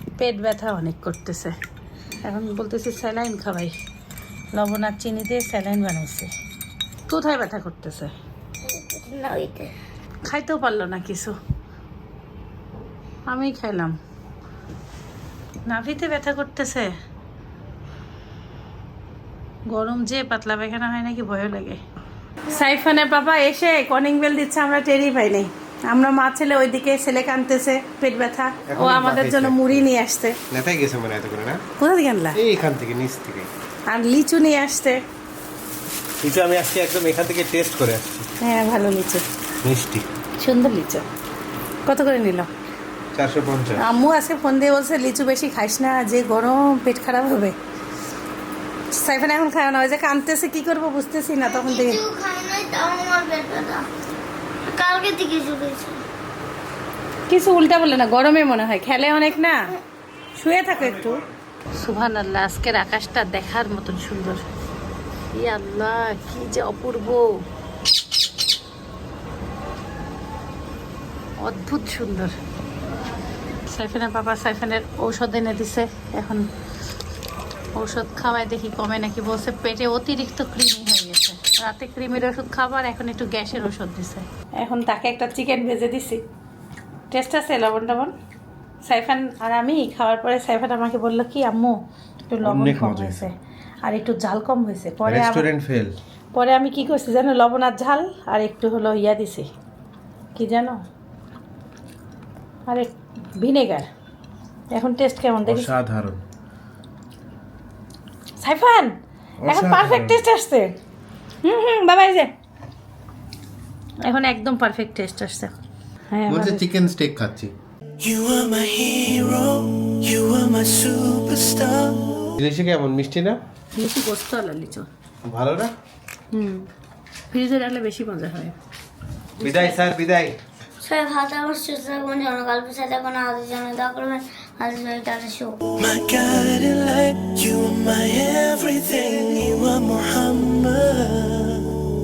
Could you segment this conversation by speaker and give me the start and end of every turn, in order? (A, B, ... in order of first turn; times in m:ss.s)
0:00.2-0:01.6 A
0:02.2-0:03.7 A
0:04.5-0:06.3 A
0:07.1-0:08.1 A
0:08.6-0:09.7 B
0:10.3-0:11.3 A
0:13.3-0:14.0 A
0:15.6-0:16.9 A
0:19.7-0:21.8 A
0:22.5-0:30.4 A
0:28.7-0:29.8 C
0:30.5-0:31.6 C
0:31.8-0:32.4 A
0:32.3-0:33.5 C
0:33.9-0:35.0 A
0:36.2-0:38.2 C
0:38.4-0:39.2 A
0:39.6-0:40.0 C
0:40.4-0:41.0 A
0:41.8-0:42.5 A
0:43.1-0:43.8 C
0:43.8-0:47.5 A
0:48.9-0:52.0 A
0:51.4-0:53.9 B
0:54.7-0:56.0 B
0:57.3-0:59.7 A
1:00.4-1:01.2 A
1:01.8-1:04.4 A
1:05.3-1:07.3 A
1:11.4-1:12.3 A
1:13.7-1:16.5 A
1:17.8-1:26.2 A
1:27.1-1:28.1 A
1:28.8-1:31.8 A
1:32.3-1:35.4 A
1:32.4-1:33.3 C
1:35.0-1:35.9 C
1:36.3-1:39.5 A
1:40.3-1:40.8 A
1:42.7-1:43.9 A
1:44.7-1:45.7 A
1:45.4-1:46.2 C
1:48.4-1:48.9 A
1:49.4-1:50.2 C
1:49.5-1:50.7 A
1:51.4-1:52.3 A
1:54.0-1:55.5 A
1:56.1-1:56.7 A
1:56.3-1:57.5 C
1:58.0-2:02.4 D
2:02.4-2:03.4 C
2:03.7-2:04.9 A
2:05.2-2:05.7 C
2:06.3-2:06.7 A
2:07.3-2:08.5 A
2:09.4-2:09.8 A
2:09.4-2:10.4 C
2:10.8-2:15.6 B
2:15.8-2:21.7 D